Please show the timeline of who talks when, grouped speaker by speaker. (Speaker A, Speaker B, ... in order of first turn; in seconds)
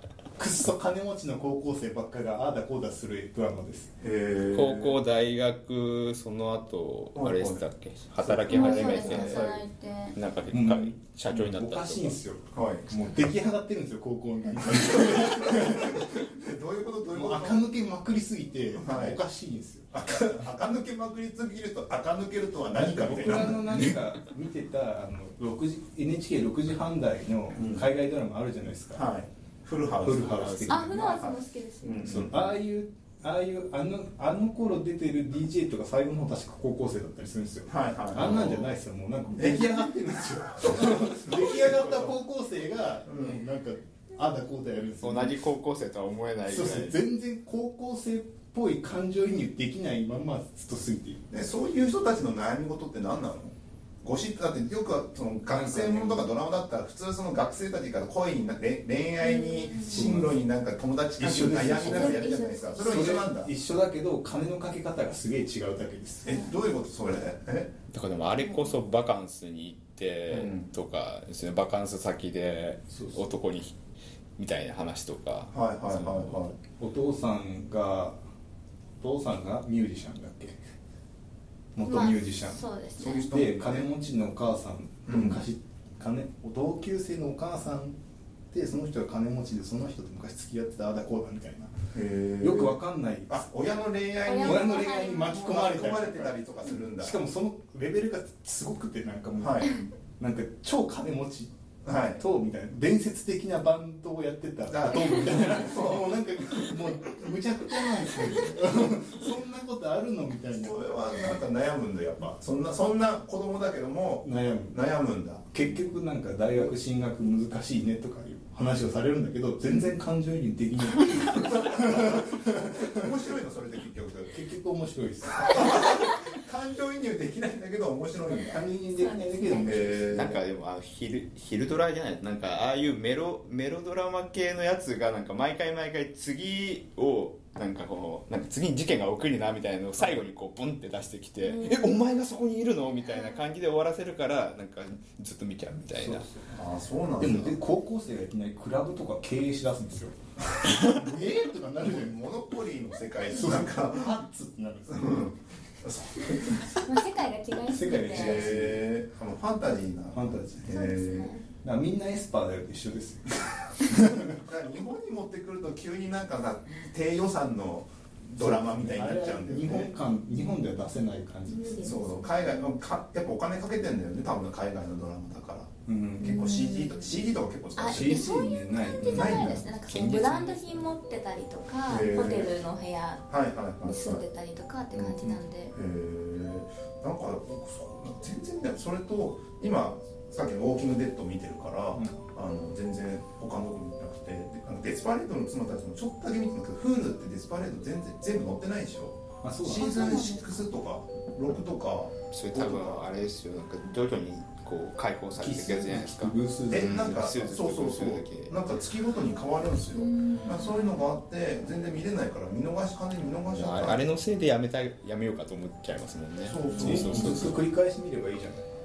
Speaker A: 0.4-3.9, 10.5-16.3, 17.1-19.9, 22.8-29.0, 30.0-31.1, 32.0-45.4, 46.5-51.2, 55.5-56.3, 59.9-60.4, 61.2-66.4, 72.9-73.2, 76.8-78.2, 79.0-80.6, 81.8-82.6, 83.3-88.0, 88.5-91.8, 92.4-93.4, 94.4-96.3, 97.0-101.5, 102.2-111.3, 114.2-114.8, 115.5-123.1, 124.3-125.9, 128.5-130.4, 146.0-146.5, 147.2-152.2, 153.3-155.3, 157.7-158.8, 160.1-160.7, 161.6-164.4, 168.4-172.0, 175.9-176.5, 177.9-180.8, 191.9-192.2, 199.4-200.2, 205.4-207.3, 216.7-218.7
Speaker B: 4.0-5.0, 7.2-9.6, 12.5-12.9, 14.7-17.7, 18.7-19.2, 19.9-24.0, 27.5-27.9, 28.9-32.5, 37.7-38.7, 39.4-40.0, 40.5-42.1, 43.1-43.4, 51.3-63.5, 66.2-67.7, 70.3-70.7, 75.5-76.6, 83.0-83.9, 85.1-85.4, 91.9-97.2, 99.4-99.8, 101.8-102.2, 104.7-106.1, 110.5-115.5, 121.4-124.3, 125.4-128.6, 129.6-130.4, 146.5-147.6, 151.8-154.2, 154.9-156.8, 158.1-161.3, 164.3-169.9, 171.8-178.3, 179.0-179.6, 181.9-182.6, 183.3-184.2, 184.9-203.1, 206.7-214.1, 216.4-217.6
Speaker C: 4.5-9.6, 10.2-12.2, 30.4-30.8, 38.2-38.6, 45.0-47.0, 67.9-73.8, 74.4-76.4, 129.9-146.3, 202.3-208.6, 213.5-217.6
Speaker D: 8.5-10.2, 30.7-32.1, 59.2-60.0, 61.8-63.2, 81.8-83.3, 94.2-95.5, 128.9-129.8, 141.4-141.9, 156.7-158.6, 160.7-161.4, 171.5-172.7, 176.2-177.0, 177.8-183.3, 183.8-185.7, 199.7-200.5, 209.9-211.0